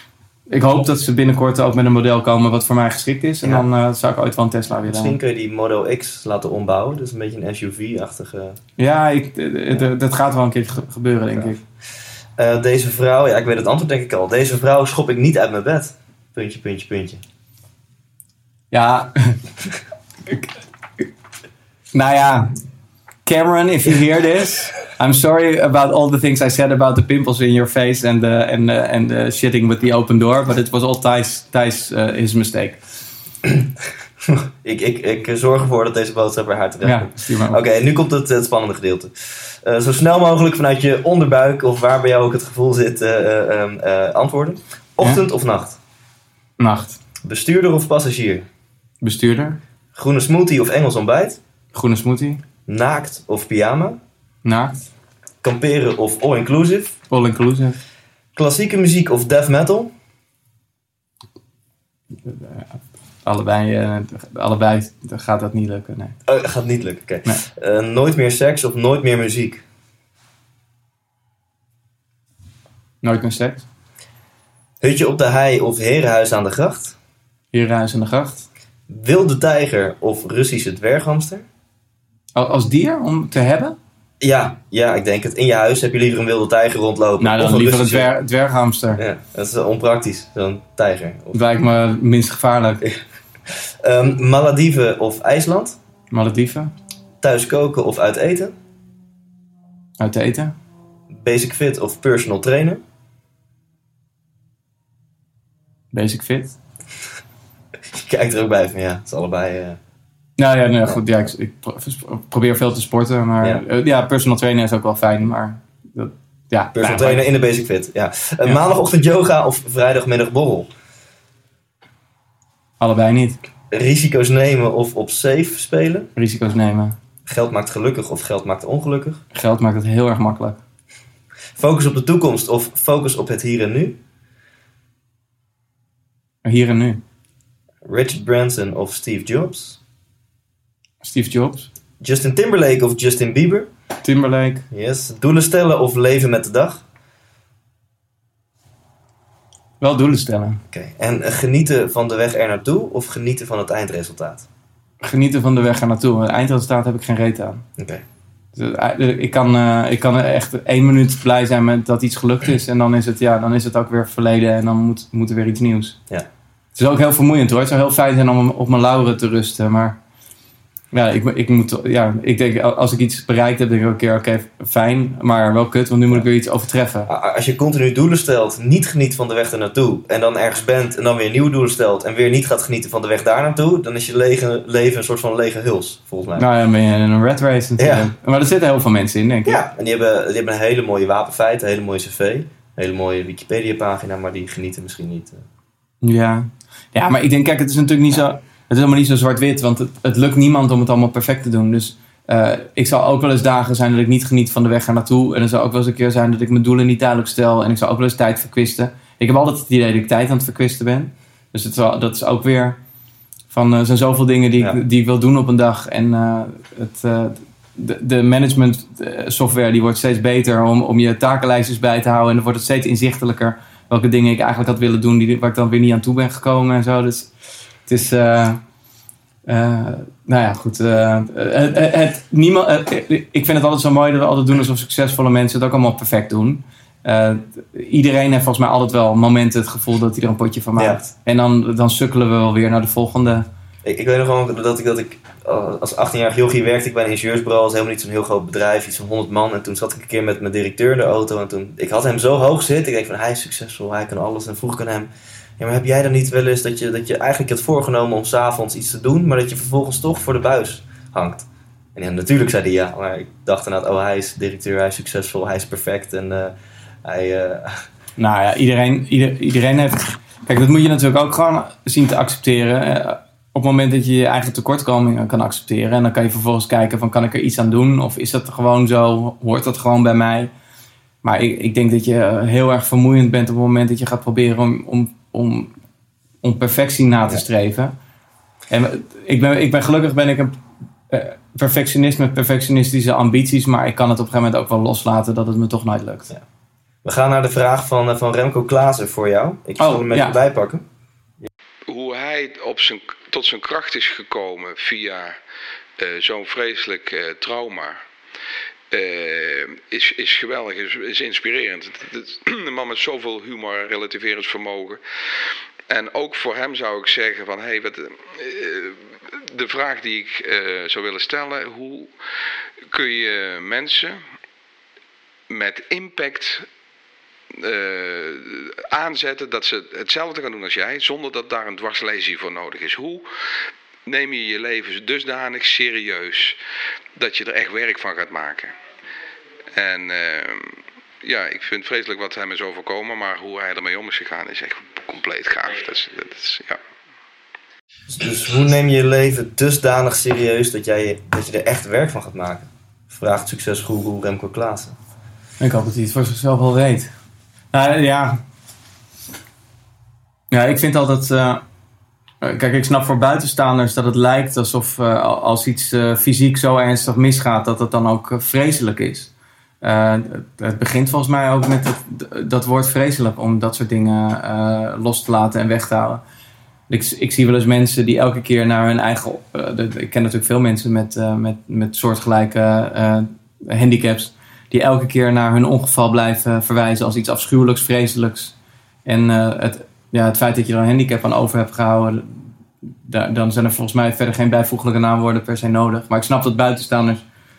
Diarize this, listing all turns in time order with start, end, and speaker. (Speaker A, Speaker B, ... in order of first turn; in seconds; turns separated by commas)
Speaker A: 0.5-5.2, Speaker B: 4.9-8.6, Speaker A: 8.8-11.6, Speaker B: 12.4-17.2, Speaker A: 18.7-19.4, Speaker A: 20.2-21.1, Speaker A: 21.9-22.5, Speaker A: 23.2-32.8, Speaker B: 34.2-45.8, Speaker A: 36.8-37.6, Speaker A: 46.6-47.0, Speaker B: 47.2-48.5, Speaker A: 49.0-49.6, Speaker B: 50.0-51.4, Speaker A: 51.7-52.4, Speaker B: 52.7-54.0, Speaker A: 54.4-54.8, Speaker B: 55.4-57.0, Speaker A: 57.1-57.8, Speaker B: 58.4-59.9, Speaker A: 62.2-66.2, Speaker B: 66.3-69.6, Speaker A: 73.0-73.7, Speaker B: 74.8-77.0, Speaker A: 77.5-78.5, Speaker B: 78.9-81.5, Speaker A: 82.3-83.8, Speaker B: 84.2-88.1, Speaker A: 87.2-89.0, Speaker B: 89.0-91.4, Speaker A: 91.3-92.8, Speaker B: 92.8-95.8, Speaker A: 96.1-96.7, Speaker B: 97.2-98.5, Speaker A: 100.0-100.5, Speaker B: 101.1-102.8, Speaker A: 105.9-106.6, Speaker B: 107.9-109.8, Speaker A: 110.4-117.3, Speaker B: 116.8-120.7, Speaker A: 122.8-123.4, Speaker B: 123.7-126.1, Speaker A: 126.2-127.0, Speaker B: 127.3-129.2, Speaker A: 129.3-130.6, Speaker B: 131.6-133.9, Speaker A: 136.4-137.0, Speaker B: 137.8-139.8, Speaker A: 141.0-141.7, Speaker B: 142.0-143.7, Speaker A: 144.0-144.6, Speaker B: 144.7-146.8, Speaker A: 149.8-150.6, Speaker B: 150.7-154.4, Speaker A: 155.0-157.6, Speaker B: 157.8-158.0, Speaker A: 158.5-166.0, Speaker A: 166.8-170.0, Speaker A: 170.9-177.1, Speaker B: 177.1-186.4, Speaker A: 186.4-189.6, Speaker B: 187.8-188.1, Speaker B: 189.4-195.4, Speaker A: 196.0-212.8, Speaker A: 213.5-227.3, Speaker A: 227.9-228.6, Speaker A: 229.4-243.5, Speaker B: 240.8-241.0, Speaker B: 243.8-267.9, Speaker A: 268.2-280.5, Speaker A: 281.2-285.7, Speaker A: 286.4-287.9, Speaker A: 288.7-290.6, Speaker A: 291.1-296.3, Speaker B: 297.0-300.8, Speaker A: 299.8-300.4, Speaker C: 301.9-305.4, Speaker C: 306.0-308.0, Speaker C: 308.9-315.0, Speaker C: 315.9-322.1, Speaker C: 322.9-324.2, Speaker C: 325.5-326.7, Speaker C: 327.5-333.2, Speaker C: 334.1-336.6, Speaker C: 337.2-338.7, Speaker C: 339.8-346.8, Speaker B: 348.1-354.9, Speaker A: 355.6-357.1, Speaker A: 357.7-358.4, Speaker A: 360.5-361.6, Speaker A: 362.4-369.3, Speaker A: 369.8-376.2, Speaker A: 376.9-388.5, Speaker A: 389.1-392.4, Speaker A: 393.0-397.2